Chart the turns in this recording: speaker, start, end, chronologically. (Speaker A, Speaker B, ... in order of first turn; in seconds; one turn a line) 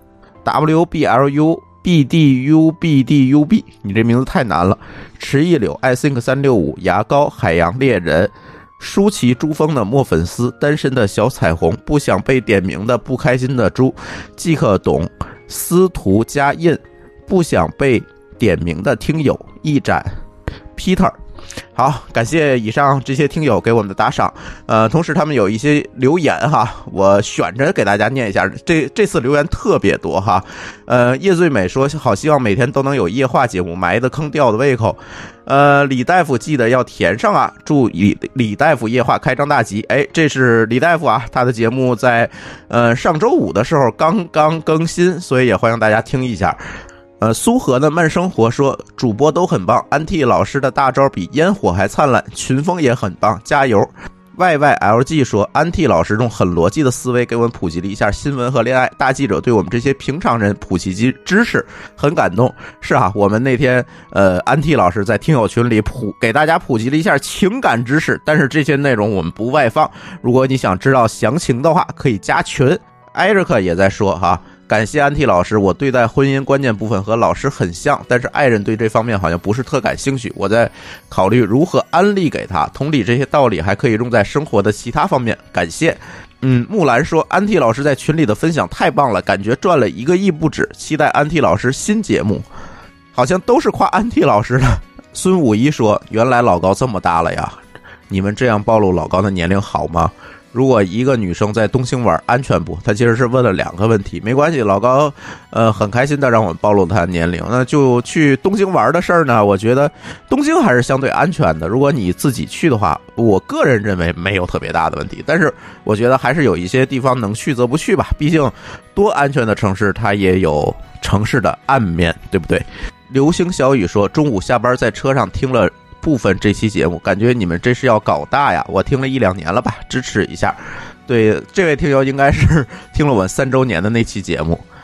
Speaker A: 0.4-20.1
Speaker A: 20.8-21.1
Speaker A: 21.8-46.6
Speaker A: 47.2-92.5
Speaker A: 93.1-97.6
Speaker A: 98.1-134.6